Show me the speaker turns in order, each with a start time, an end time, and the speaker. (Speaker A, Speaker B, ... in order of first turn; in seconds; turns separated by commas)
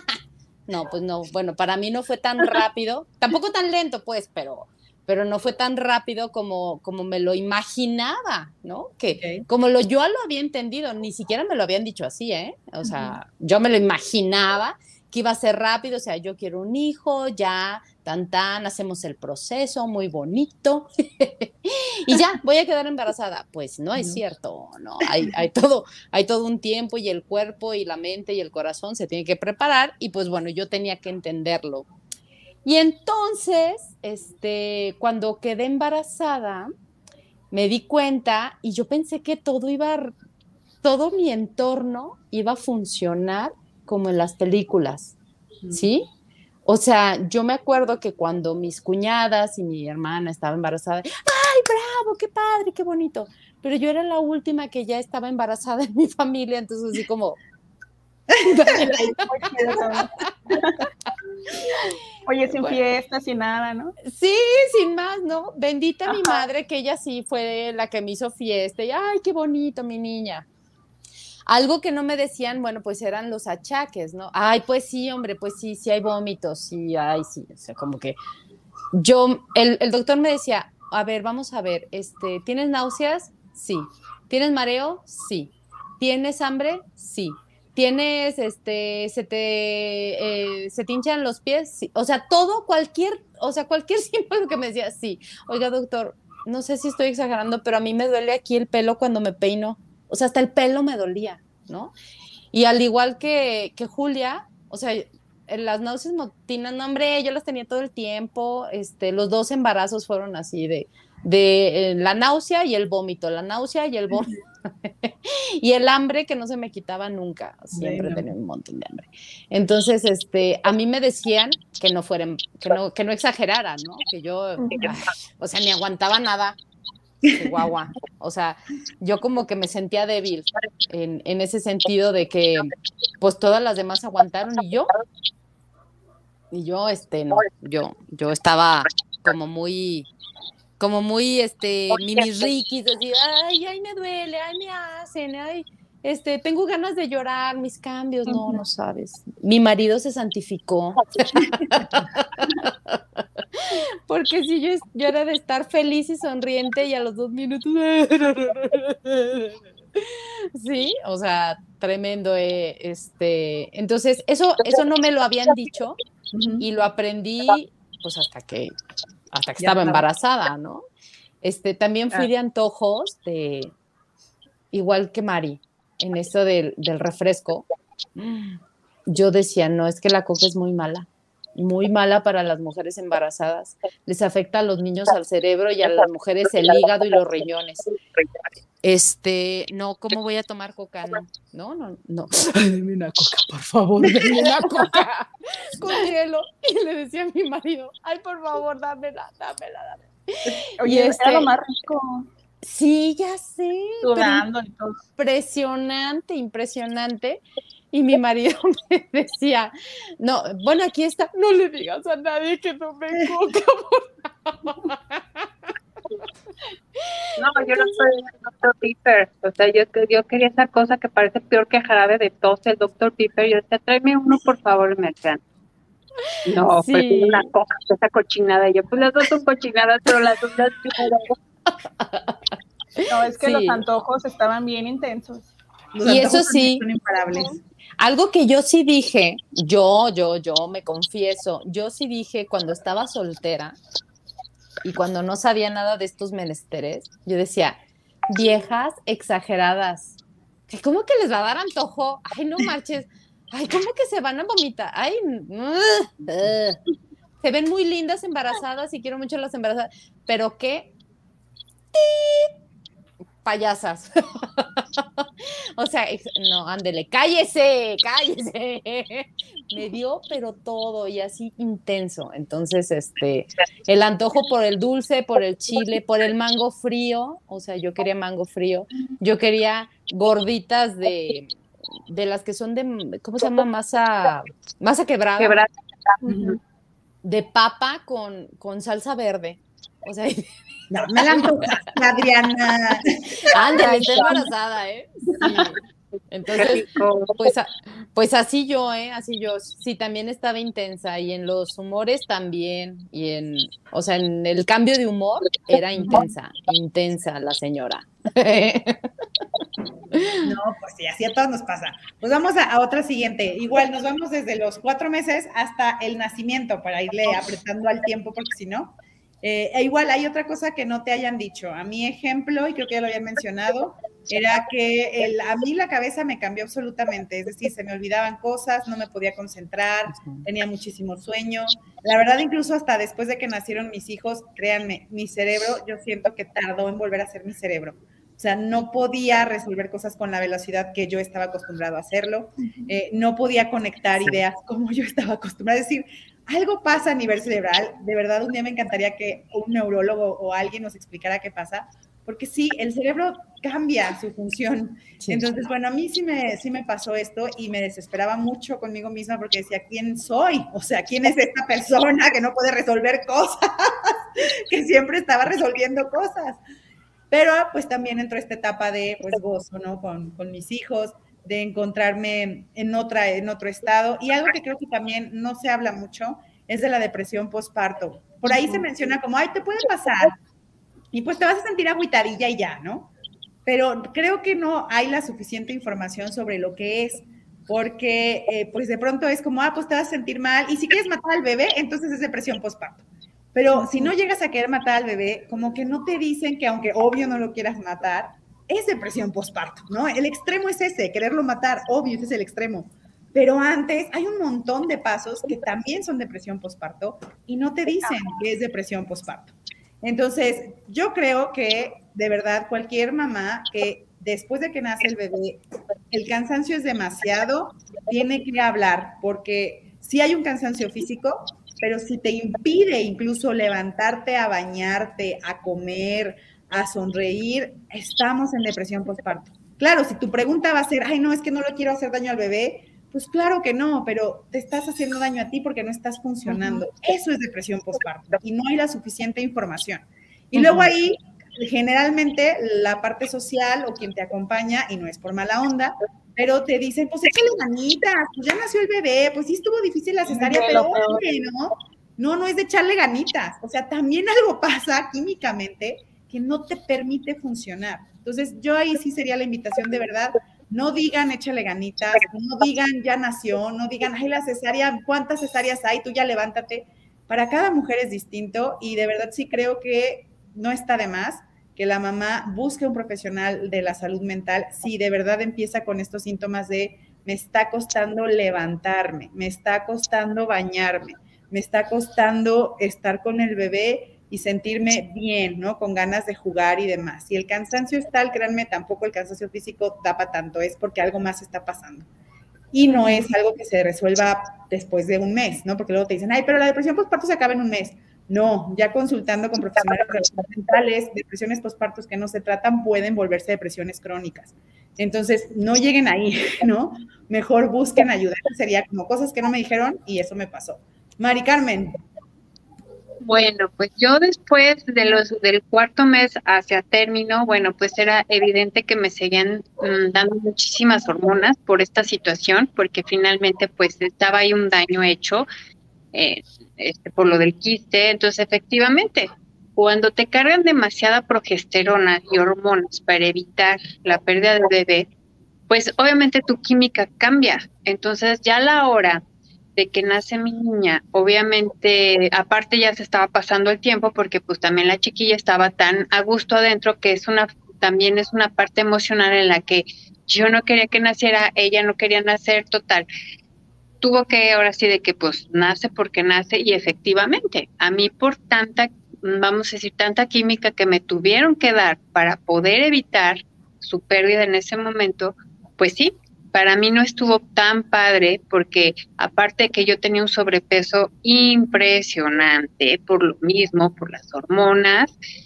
Speaker A: 0.7-31.9, Speaker B: 9.2-9.4, Speaker B: 12.8-13.1, Speaker B: 23.9-24.2, Speaker A: 32.6-36.7, Speaker A: 37.5-40.1, Speaker A: 40.8-45.1, Speaker A: 45.7-46.0, Speaker A: 46.6-57.4, Speaker B: 58.3-59.2, Speaker A: 58.4-59.1, Speaker C: 59.2-60.8, Speaker C: 62.2-64.0, Speaker A: 64.1-70.5, Speaker A: 71.5-78.2, Speaker A: 78.9-101.9, Speaker A: 102.5-126.6, Speaker B: 117.7-118.2, Speaker C: 124.6-124.9, Speaker B: 127.2-127.5, Speaker A: 127.3-134.9, Speaker A: 136.5-140.1, Speaker A: 140.8-166.0, Speaker B: 166.3-166.6, Speaker A: 166.6-168.7, Speaker A: 169.3-170.8, Speaker B: 169.6-170.0, Speaker A: 171.4-173.7, Speaker A: 174.7-187.9, Speaker A: 188.8-201.5, Speaker B: 194.1-194.3, Speaker C: 200.8-202.3, Speaker A: 202.6-204.4, Speaker C: 204.0-205.0, Speaker A: 205.2-215.7, Speaker A: 217.0-217.9, Speaker D: 217.4-225.4, Speaker A: 226.2-227.4, Speaker D: 226.5-231.3, Speaker A: 231.7-233.8, Speaker C: 233.1-235.5, Speaker B: 235.9-237.6, Speaker A: 236.0-236.8, Speaker C: 237.3-237.6, Speaker A: 238.0-243.8, Speaker A: 244.8-247.8, Speaker A: 248.3-250.2, Speaker A: 250.7-256.8, Speaker A: 257.4-260.9, Speaker A: 261.9-262.5, Speaker A: 263.4-265.2, Speaker A: 265.8-281.5, Speaker A: 282.1-285.6, Speaker D: 285.4-286.5, Speaker C: 286.2-286.5, Speaker A: 287.2-290.4, Speaker B: 290.9-294.2, Speaker A: 291.3-291.7, Speaker A: 293.5-295.8, Speaker D: 293.8-294.3, Speaker A: 296.3-309.0, Speaker D: 296.5-297.4, Speaker B: 306.0-306.3, Speaker A: 310.1-310.5, Speaker B: 310.4-366.6, Speaker A: 330.1-330.4, Speaker B: 367.3-380.4, Speaker B: 381.1-383.1, Speaker B: 383.6-492.1, Speaker C: 393.7-394.1, Speaker A: 440.6-440.9, Speaker C: 450.3-451.2, Speaker B: 492.7-512.0, Speaker C: 492.9-493.2, Speaker D: 513.2-525.5, Speaker D: 526.1-535.1, Speaker D: 535.7-539.2, Speaker D: 539.8-553.1, Speaker D: 554.0-575.1